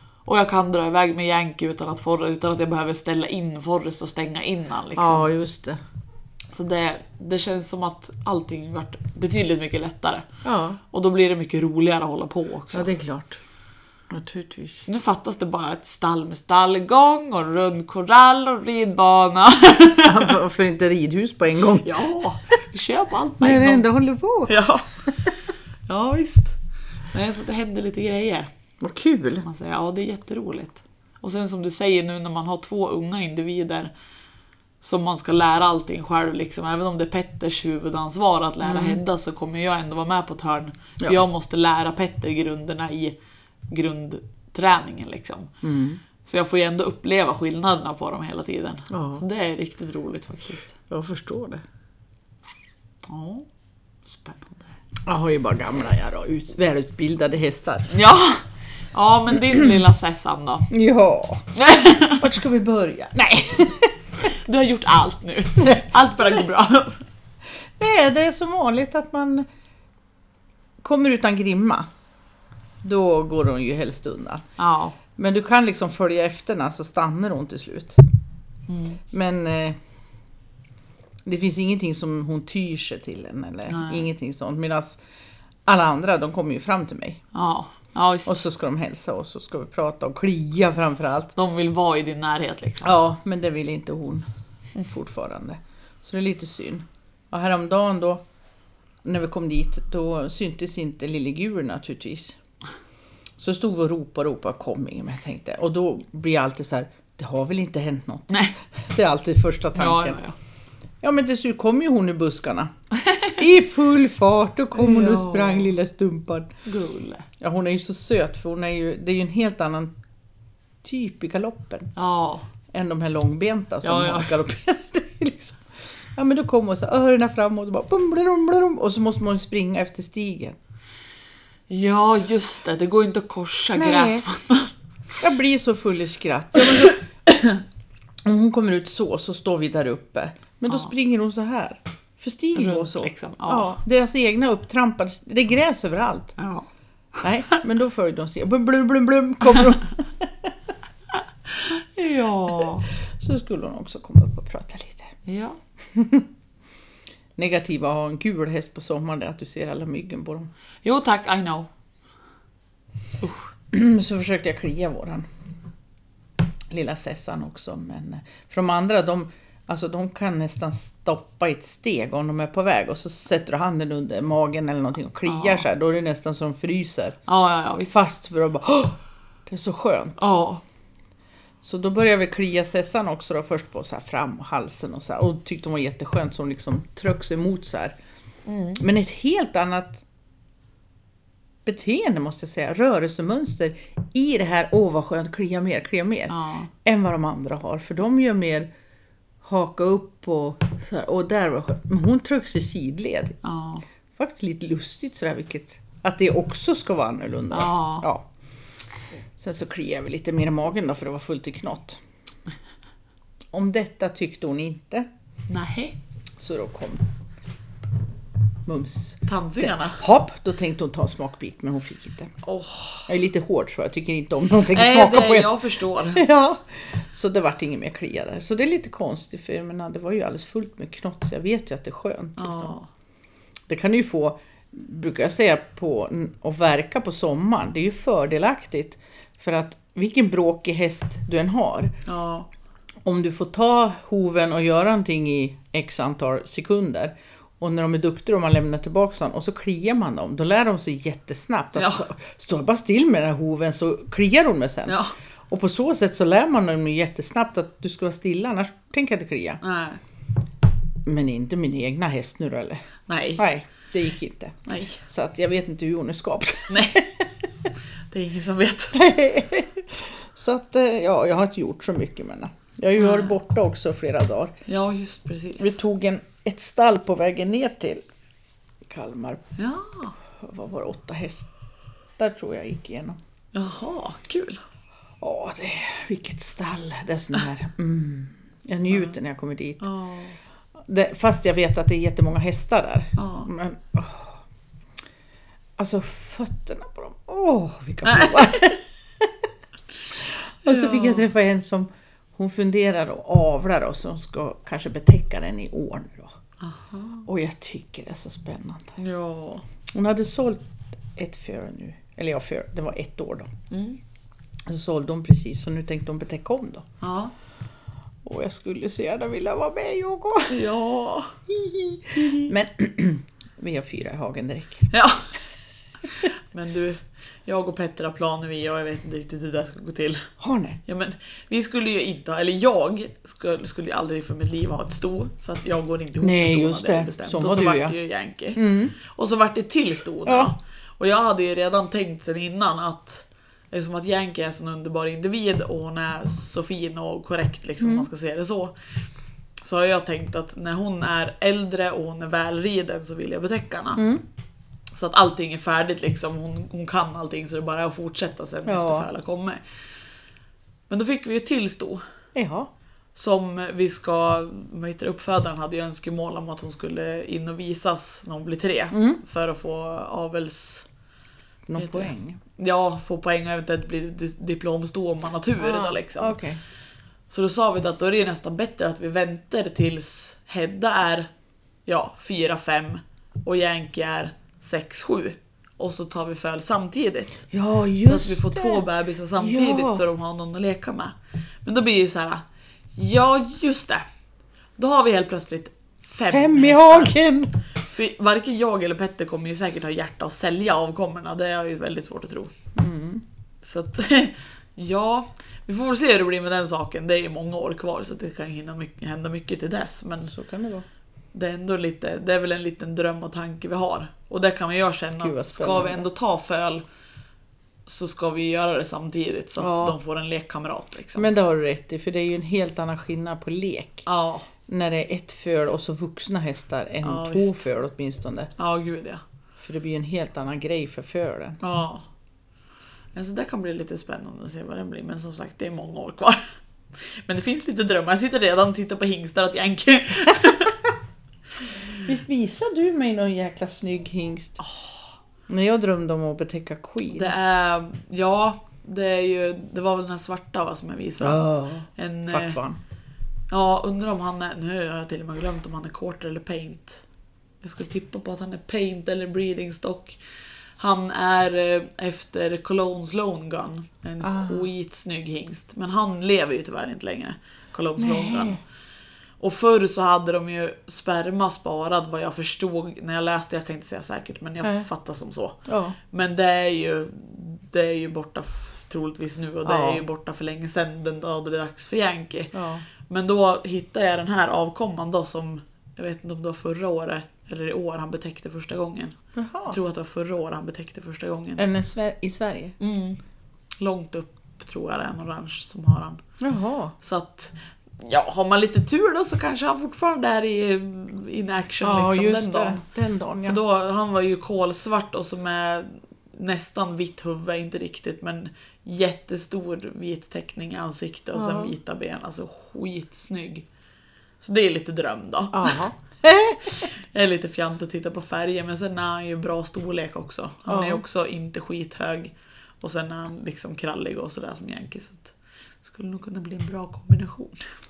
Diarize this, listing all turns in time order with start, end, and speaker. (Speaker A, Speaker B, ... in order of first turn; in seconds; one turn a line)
Speaker A: 0.3-5.3
Speaker B: 5.0-5.8
Speaker A: 6.5-10.3
Speaker B: 10.4-10.8
Speaker A: 10.9-12.9
Speaker B: 12.7-13.4
Speaker B: 14.1-14.8
Speaker A: 14.8-20.4
Speaker B: 20.0-22.2
Speaker A: 21.7-23.9
Speaker B: 23.4-24.6
Speaker A: 24.5-26.6
Speaker A: 27.1-28.5
Speaker B: 28.8-29.4
Speaker A: 29.4-33.9
Speaker A: 34.8-43.2
Speaker B: 38.6-39.0
Speaker A: 43.7-45.5
Speaker B: 45.6-46.0
Speaker A: 46.2-50.8
Speaker B: 48.9-49.2
Speaker B: 50.9-51.6
Speaker A: 53.1-53.5
Speaker A: 54.1-54.7
Speaker B: 55.1-58.0
Speaker A: 57.9-60.7
Speaker B: 60.7-61.5
Speaker A: 61.6-62.3
Speaker B: 62.0-64.0
Speaker A: 64.2-67.0
Speaker B: 67.8-69.5
Speaker B: 70.8-71.9
Speaker B: 72.8-74.4
Speaker A: 74.6-75.0
Speaker B: 75.2-78.0
Speaker A: 78.7-79.0
Speaker B: 79.1-79.8
Speaker B: 81.2-85.0
Speaker A: 83.7-84.1
Speaker B: 85.7-87.2
Speaker A: 87.3-88.4
Speaker B: 88.3-91.3
Speaker A: 91.4-92.9
Speaker B: 92.8-94.2
Speaker B: 94.8-98.2
Speaker B: 99.0-102.4
Speaker B: 103.4-110.2
Speaker A: 109.8-110.4
Speaker B: 111.0-112.7
Speaker B: 113.3-116.5
Speaker A: 114.8-115.7
Speaker A: 116.7-117.3
Speaker B: 117.4-119.9
Speaker B: 120.8-121.9
Speaker A: 122.0-122.5
Speaker B: 122.7-130.6
Speaker A: 123.8-124.4
Speaker A: 131.7-134.7
Speaker B: 133.8-134.2
Speaker B: 135.2-137.0
Speaker B: 138.2-146.4
Speaker A: 142.6-143.8
Speaker A: 146.4-146.7
Speaker B: 147.2-150.5
Speaker A: 151.5-152.9
Speaker B: 153.1-155.2
Speaker A: 155.3-155.6
Speaker B: 155.9-156.3
Speaker B: 157.4-160.5
Speaker A: 160.8-161.7
Speaker B: 163.7-165.3
Speaker B: 166.7-177.2
Speaker A: 175.3-175.7
Speaker A: 177.3-178.0
Speaker B: 177.9-180.2
Speaker A: 180.2-180.6
Speaker B: 181.6-188.0
Speaker A: 188.5-188.8
Speaker B: 188.8-190.1
Speaker B: 191.7-198.7
Speaker A: 196.3-196.7
Speaker B: 199.4-203.4
Speaker A: 203.4-203.8
Speaker B: 204.1-208.3
Speaker A: 207.5-208.1
Speaker B: 209.4-212.0
Speaker B: 213.5-215.1
Speaker A: 215.5-216.0
Speaker B: 216.4-217.1
Speaker B: 218.7-222.3
Speaker A: 219.3-220.0
Speaker A: 222.4-223.1
Speaker B: 223.1-225.6
Speaker A: 224.7-226.2
Speaker B: 226.2-232.8
Speaker A: 232.4-232.9
Speaker B: 233.7-241.9
Speaker A: 242.1-242.5
Speaker B: 243.0-259.6
Speaker A: 251.8-252.0
Speaker A: 254.9-255.1
Speaker A: 259.6-260.0
Speaker B: 261.1-262.9
Speaker A: 263.1-263.4
Speaker B: 263.4-267.3
Speaker A: 264.7-265.0
Speaker A: 266.7-267.0
Speaker A: 268.1-269.0
Speaker B: 268.9-274.6
Speaker A: 273.0-273.4
Speaker A: 274.7-275.8
Speaker B: 275.6-278.1
Speaker B: 278.9-279.4
Speaker A: 279.6-280.1
Speaker B: 280.4-281.5
Speaker B: 282.2-283.2
Speaker A: 283.5-284.6
Speaker B: 285.2-289.9
Speaker A: 289.8-290.4
Speaker B: 290.8-294.4
Speaker A: 293.2-293.5
Speaker B: 295.8-299.3
Speaker A: 298.1-298.6
Speaker B: 300.1-306.3
Speaker A: 300.6-301.3
Speaker A: 306.6-307.3
Speaker B: 307.3-308.9
Speaker A: 309.0-309.6
Speaker B: 309.9-313.5
Speaker A: 313.7-314.0
Speaker B: 314.7-316.9
Speaker A: 317.0-317.3
Speaker B: 318.2-320.6
Speaker A: 320.5-321.4
Speaker B: 321.5-324.9
Speaker A: 322.1-322.5
Speaker A: 324.9-325.3
Speaker A: 326.1-330.3
Speaker B: 330.4-330.8
Speaker A: 330.9-348.7
Speaker B: 336.2-338.0
Speaker B: 338.5-338.9
Speaker B: 340.3-340.5
Speaker B: 347.8-348.1
Speaker A: 349.6-354.0
Speaker B: 354.0-354.2
Speaker A: 354.9-359.6
Speaker B: 358.7-359.1
Speaker A: 360.9-362.0
Speaker B: 362.4-362.7
Speaker A: 363.2-370.9
Speaker B: 368.9-369.2
Speaker B: 371.7-372.4
Speaker A: 371.8-376.4
Speaker B: 375.6-376.6
Speaker A: 377.3-381.3
Speaker A: 381.9-387.5
Speaker B: 387.5-388.9
Speaker A: 388.0-392.4
Speaker B: 389.4-390.1
Speaker A: 392.9-394.1
Speaker A: 394.8-397.2
Speaker B: 396.3-397.6
Speaker A: 397.9-402.5
Speaker B: 402.8-403.2
Speaker A: 403.6-410.3
Speaker B: 410.3-410.9
Speaker A: 411.3-416.8
Speaker B: 415.2-416.1
Speaker A: 417.9-421.3
Speaker B: 419.6-420.0
Speaker B: 421.2-424.1
Speaker A: 424.1-424.5
Speaker B: 424.7-428.5
Speaker A: 427.0-427.7
Speaker A: 428.6-429.2
Speaker B: 429.6-431.6
Speaker A: 431.6-432.1
Speaker A: 433.1-436.4
Speaker A: 436.9-440.8
Speaker A: 441.6-442.0
Speaker B: 442.1-444.6
Speaker A: 444.6-445.0
Speaker B: 445.5-447.4
Speaker A: 447.1-451.4
Speaker B: 451.2-452.8
Speaker A: 452.0-452.6
Speaker A: 453.5-457.0
Speaker A: 457.6-460.2
Speaker A: 460.8-468.6
Speaker B: 464.2-464.7
Speaker B: 468.0-468.6
Speaker A: 469.4-482.5
Speaker B: 474.6-474.9
Speaker B: 475.7-476.0
Speaker B: 479.6-480.0
Speaker B: 482.5-482.9
Speaker A: 483.1-491.6
Speaker B: 489.4-489.8
Speaker B: 491.6-492.8
Speaker A: 492.8-493.2
Speaker A: 493.8-496.2
Speaker B: 496.4-496.9
Speaker A: 497.0-502.8
Speaker B: 501.8-503.6
Speaker A: 503.4-513.7
Speaker B: 511.3-511.7
Speaker A: 514.4-515.8
Speaker B: 515.5-516.9
Speaker A: 516.6-527.6
Speaker B: 520.7-521.0